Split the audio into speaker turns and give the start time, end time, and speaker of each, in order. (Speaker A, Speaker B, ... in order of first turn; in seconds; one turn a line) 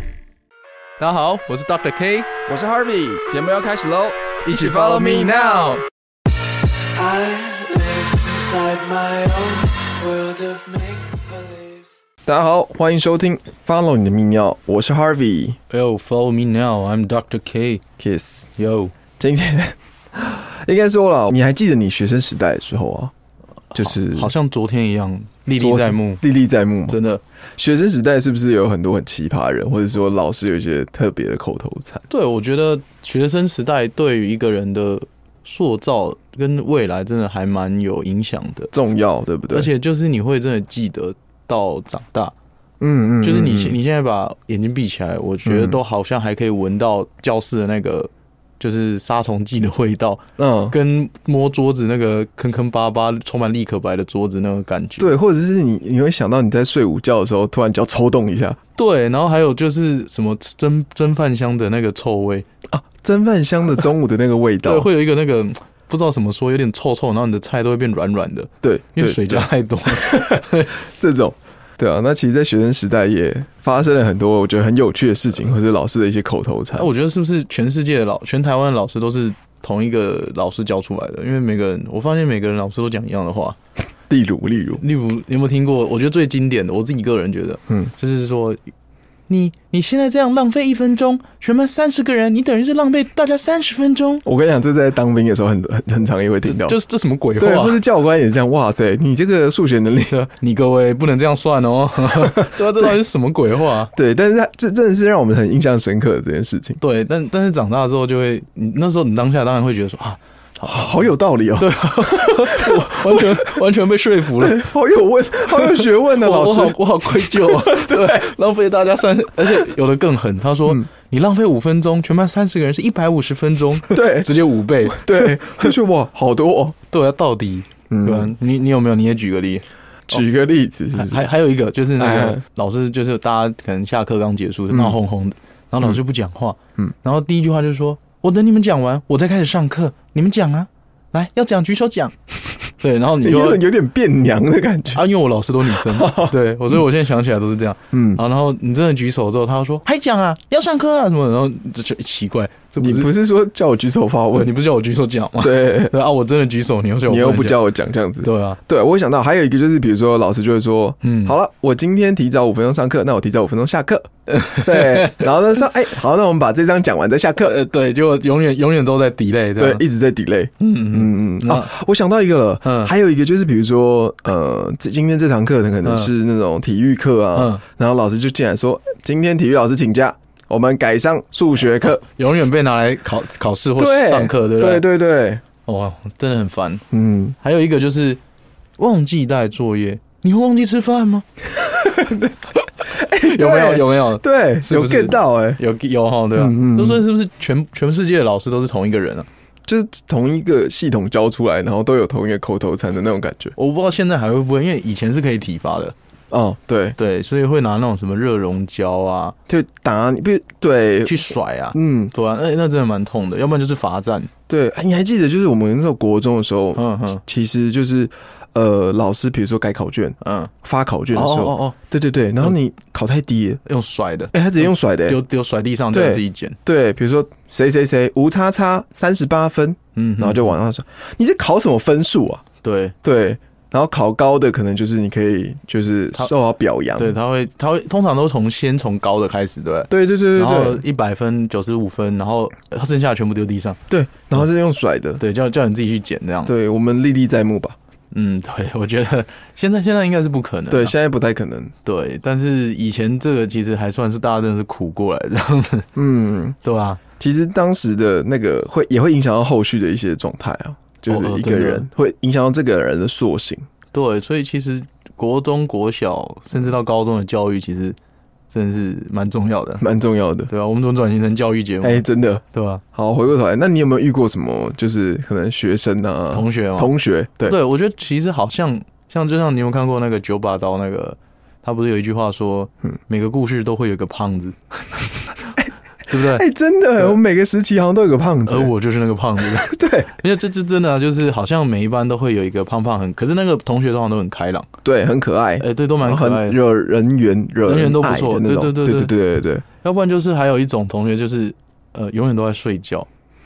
Speaker A: 1.0-2.3
Speaker B: 2.5-5.5
Speaker A: 4.5-5.8
Speaker C: 6.9-11.8
Speaker B: 12.2-15.6
Speaker A: 15.7-17.8
Speaker B: 18.0-18.5
Speaker A: 18.6-18.9
Speaker B: 19.2-23.1
Speaker A: 23.7-26.2
Speaker B: 23.8-24.3
Speaker B: 25.5-27.0
Speaker A: 26.9-27.2
Speaker B: 27.6-32.0
Speaker A: 32.1-38.7
Speaker B: 38.7-39.7
Speaker A: 39.5-42.3
Speaker B: 42.8-43.8
Speaker A: 43.2-55.1
Speaker B: 45.5-45.8
Speaker B: 50.4-50.8
Speaker B: 55.0-58.6
Speaker A: 58.8-62.5
Speaker B: 62.7-64.9
Speaker A: 64.6-70.7
Speaker B: 68.6-76.9
Speaker A: 76.8-83.6
Speaker B: 84.1-84.8
Speaker A: 84.8-88.6
Speaker A: 89.3-94.2
Speaker B: 94.2-96.8
Speaker A: 96.5-97.8
Speaker B: 97.4-100.2
Speaker A: 100.1-103.9
Speaker B: 102.2-102.8
Speaker B: 103.9-106.8
Speaker A: 106.8-111.1
Speaker B: 110.6-113.5
Speaker A: 111.6-114.7
Speaker B: 114.4-118.3
Speaker A: 115.6-125.7
Speaker B: 123.9-124.3
Speaker B: 124.8-126.8
Speaker A: 126.9-130.2
Speaker B: 127.9-128.3
Speaker B: 130.1-131.2
Speaker A: 130.9-142.2
Speaker B: 132.0-132.4
Speaker A: 142.7-143.6
Speaker B: 143.2-145.1
Speaker A: 144.9-153.1
Speaker B: 145.7-146.3
Speaker B: 147.9-148.2
Speaker B: 152.8-154.5
Speaker A: 154.3-157.6
Speaker B: 155.4-155.9
Speaker B: 157.1-167.6
Speaker A: 158.2-158.6
Speaker A: 161.0-161.4
Speaker A: 164.3-165.3
Speaker A: 167.4-169.8
Speaker B: 169.6-182.0
Speaker A: 170.6-171.7
Speaker A: 172.6-172.9
Speaker A: 175.8-176.1
Speaker A: 177.3-177.6
Speaker A: 182.0-184.8
Speaker B: 183.8-185.4
Speaker A: 185.7-186.8
Speaker B: 186.9-187.4
Speaker A: 187.4-188.2
Speaker A: 188.8-191.3
Speaker B: 191.6-195.6
Speaker A: 193.2-199.3
Speaker B: 196.4-197.0
Speaker B: 199.7-203.6
Speaker A: 203.6-205.9
Speaker B: 206.3-207.0
Speaker A: 207.0-209.3
Speaker B: 209.5-212.1
Speaker A: 211.1-214.3
Speaker B: 214.5-223.6
Speaker A: 216.8-217.2
Speaker A: 220.2-220.5
Speaker A: 221.1-221.8
Speaker A: 223.7-226.6
Speaker B: 224.3-225.2
Speaker B: 225.9-232.4
Speaker A: 230.0-230.5
Speaker A: 232.6-232.9
Speaker B: 233.0-237.2
Speaker A: 237.0-243.8
Speaker B: 239.9-240.8
Speaker B: 243.9-245.2
Speaker A: 245.2-246.5
Speaker B: 246.5-247.8
Speaker A: 248.1-250.9
Speaker B: 250.7-251.7
Speaker A: 251.8-255.9
Speaker B: 255.9-256.6
Speaker A: 256.6-257.0
Speaker B: 257.2-263.7
Speaker A: 261.1-261.9
Speaker A: 263.9-268.0
Speaker A: 268.5-269.8
Speaker B: 269.8-270.5
Speaker A: 270.5-272.8
Speaker B: 271.8-277.6
Speaker A: 276.3-276.9
Speaker A: 277.4-285.0
Speaker B: 285.6-288.7
Speaker A: 286.1-286.4
Speaker A: 288.5-294.7
Speaker B: 289.6-290.1
Speaker B: 294.8-299.6
Speaker A: 295.6-296.6
Speaker A: 297.7-299.1
Speaker A: 299.8-303.1